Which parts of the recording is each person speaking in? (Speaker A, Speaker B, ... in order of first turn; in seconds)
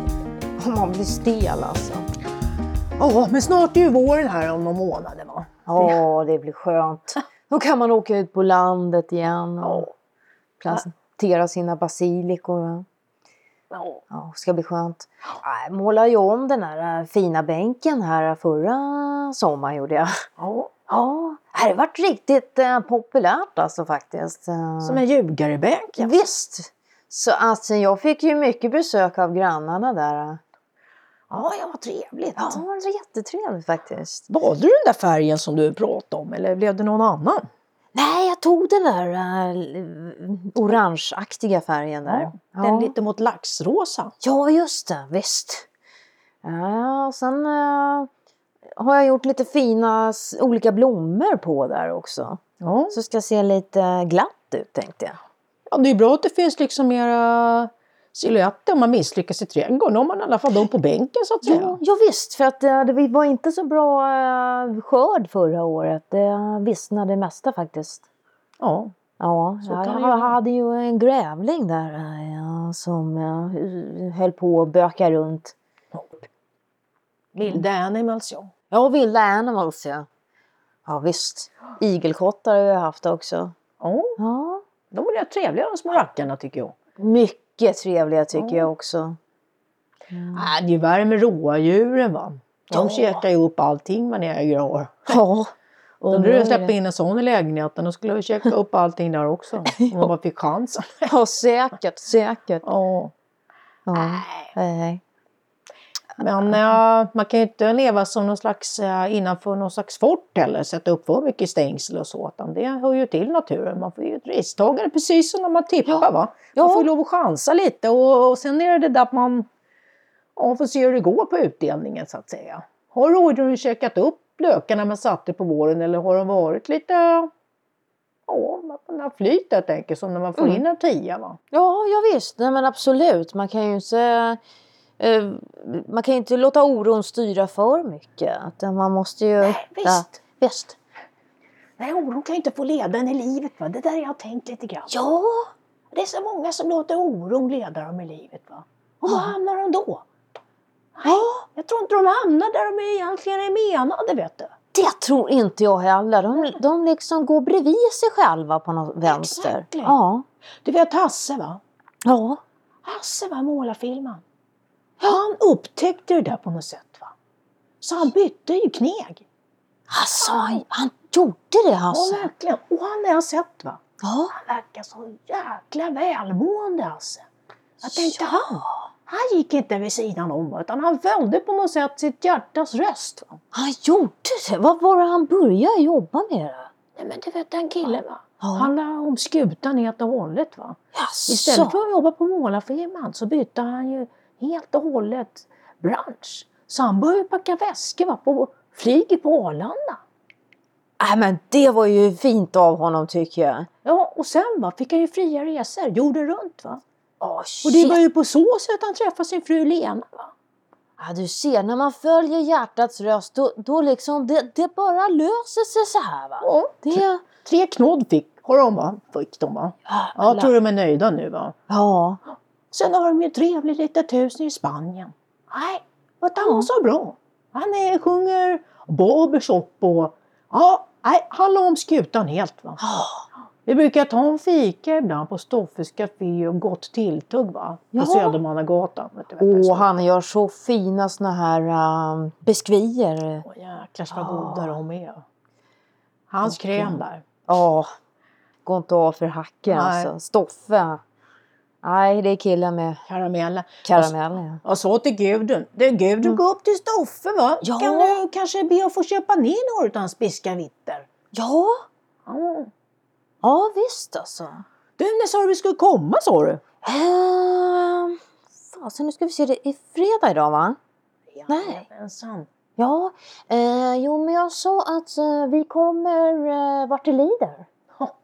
Speaker A: 0.6-2.1, 5.7-9.9, 10.6-12.9, 14.1-20.1, 20.9-25.0, 26.0-30.4, 32.4-34.3, 37.9-42.9, 44.2-45.6, 46.4-48.1, 48.8-52.4, 52.9-55.2, 61.4-68.0, 69.2-75.5, 78.7-80.1, 80.8-83.5, 84.2-84.6, 87.0-89.2, 90.1-90.5, 92.7-93.2, 95.1-95.5, 96.1-96.8, 99.8-100.1, 101.1-102.7, 103.9-105.0, 115.9-116.9, 131.5-134.4, 135.0-140.8, 144.9-145.5, 149.1-149.3, 151.1-151.4, 154.7-160.2, 162.1-162.4, 169.9-172.3, 174.0-174.3, 177.8-178.9, 183.5-186.7, 187.8-188.7, 190.9-191.8, 201.0-203.7, 207.2-208.0, 211.0-217.2, 219.9-220.5, 221.7-222.2, 226.4-226.7, 232.8-233.2, 237.9-238.4, 239.4-243.4, 244.1-244.8, 246.4-247.9, 248.6-251.0, 251.8-253.0, 253.8-254.6, 257.6-258.2, 261.3-261.8, 263.4-264.6, 266.8-270.8, 271.5-271.8, 272.8-277.7
Speaker B: 3.0-6.0, 9.6-9.9, 13.7-14.0, 20.4-20.7, 24.8-26.2, 31.3-32.6, 34.3-37.5, 42.0-44.1, 52.6-53.0, 55.7-61.8, 68.6-68.9, 69.6-70.4, 75.9-76.2, 77.3-78.5, 83.8-84.2, 84.9-86.7, 88.3-88.7, 90.3-95.2, 96.0-101.1, 102.6-103.1, 103.9-104.5, 106.2-119.5, 120.4-127.3, 128.3-131.4, 139.4-140.2, 141.8-144.9, 145.9-150.1, 150.9-154.5, 159.1-160.0, 160.6-161.6, 162.8-164.2, 165.0-167.2, 167.8-169.2, 170.1-170.6, 171.9-173.8, 174.3-177.3, 177.8-178.4, 179.1-183.4, 187.0-200.0, 203.8-206.8, 207.6-210.3, 216.4-221.6, 222.7-232.8, 233.7-240.0, 243.4-245.2, 246.3-247.2, 249.7-250.1, 253.1-261.1, 262.2-262.7, 265.0-266.6, 271.3-272.5